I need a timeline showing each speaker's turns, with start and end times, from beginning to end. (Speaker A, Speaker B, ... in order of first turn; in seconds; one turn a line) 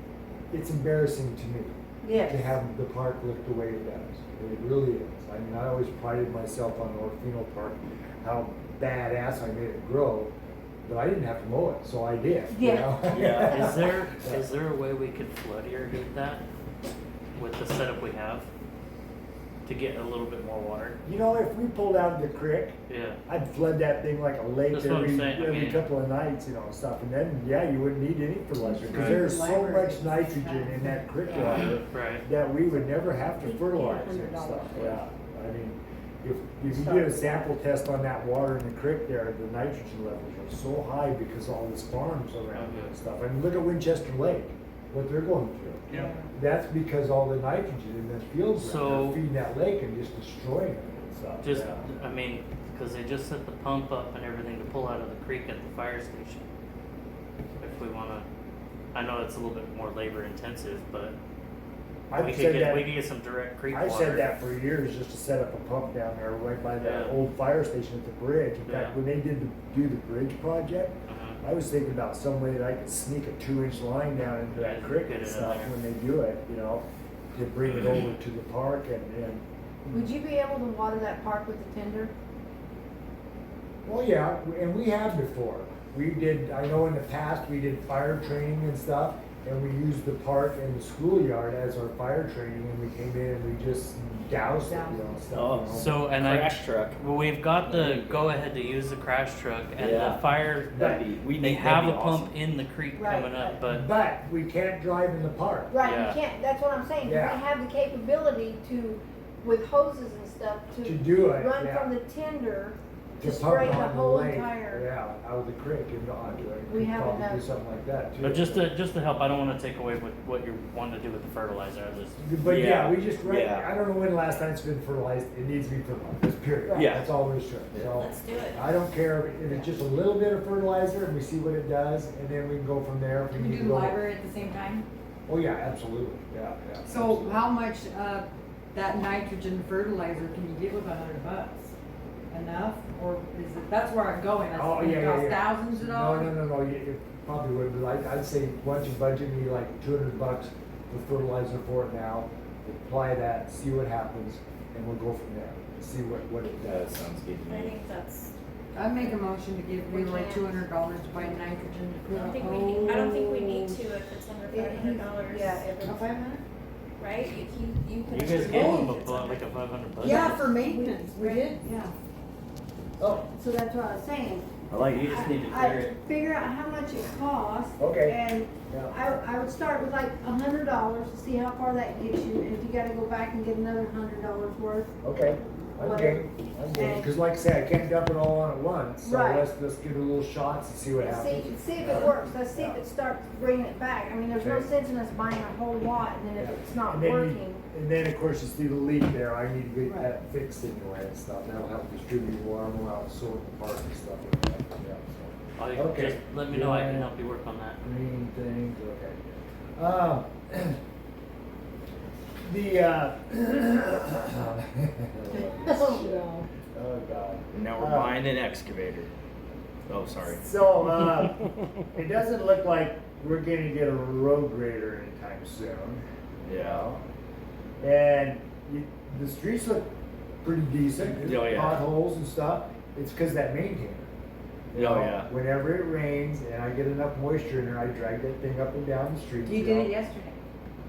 Speaker A: 0.5-10.3
Speaker B: 2.0-2.5
Speaker A: 10.8-14.4
Speaker B: 12.5-13.3
Speaker C: 13.1-13.7
Speaker D: 13.4-16.4
Speaker D: 17.3-18.5
Speaker D: 19.6-21.0
Speaker A: 21.0-51.9
Speaker D: 22.9-23.2
Speaker D: 24.7-25.9
Speaker E: 28.6-31.1
Speaker D: 28.8-29.3
Speaker D: 31.3-32.2
Speaker B: 33.6-34.8
Speaker E: 33.9-34.5
Speaker B: 36.8-37.4
Speaker D: 42.5-42.9
Speaker E: 46.0-46.2
Speaker D: 48.6-49.2
Speaker D: 51.4-56.5
Speaker D: 57.6-58.3
Speaker D: 58.9-61.1
Speaker A: 62.1-62.9
Speaker D: 62.1-64.3
Speaker A: 63.7-76.8
Speaker D: 66.8-67.2
Speaker D: 68.7-69.0
Speaker D: 71.1-71.4
Speaker D: 74.5-75.7
Speaker A: 77.3-80.0
Speaker D: 77.7-78.0
Speaker B: 79.9-82.1
Speaker A: 83.8-96.0
Speaker E: 94.5-95.0
Speaker C: 95.3-97.0
Speaker D: 95.7-103.9
Speaker C: 97.6-98.4
Speaker C: 99.8-102.3
Speaker A: 100.7-101.0
Speaker B: 102.9-103.6
Speaker A: 103.7-105.7
Speaker B: 105.7-114.8
Speaker D: 105.8-106.2
Speaker A: 107.0-107.4
Speaker A: 110.8-111.9
Speaker A: 113.2-118.7
Speaker B: 116.7-117.4
Speaker D: 118.2-122.2
Speaker A: 122.2-134.0
Speaker C: 122.4-123.7
Speaker C: 126.7-127.1
Speaker C: 127.7-128.0
Speaker F: 128.0-128.6
Speaker E: 133.3-134.8
Speaker A: 135.3-137.5
Speaker E: 136.8-141.7
Speaker E: 142.3-146.3
Speaker A: 144.5-157.0
Speaker C: 156.6-157.8
Speaker F: 157.5-158.3
Speaker E: 158.7-164.0
Speaker B: 159.9-160.6
Speaker F: 162.2-165.7
Speaker B: 164.5-166.1
Speaker E: 165.8-166.4
Speaker F: 167.0-167.6
Speaker B: 167.7-168.6
Speaker D: 168.1-170.5
Speaker F: 168.3-168.6
Speaker E: 168.4-169.0
Speaker E: 170.0-171.9
Speaker B: 170.0-171.9
Speaker B: 173.0-184.9
Speaker C: 174.7-175.8
Speaker A: 177.8-178.2
Speaker A: 178.7-178.9
Speaker A: 185.0-192.8
Speaker B: 185.8-187.1
Speaker B: 189.0-189.4
Speaker B: 191.0-197.6
Speaker A: 194.4-194.7
Speaker A: 196.4-207.1
Speaker D: 205.6-207.8
Speaker A: 207.8-210.8
Speaker A: 212.4-218.2
Speaker E: 215.3-216.4
Speaker C: 217.5-219.1
Speaker C: 219.8-220.4
Speaker A: 220.3-226.0
Speaker C: 226.4-226.9
Speaker A: 226.6-227.0
Speaker A: 227.8-229.9
Speaker A: 230.4-234.1
Speaker C: 231.1-231.8
Speaker A: 234.7-239.9
Speaker C: 234.7-235.3
Speaker E: 239.4-240.4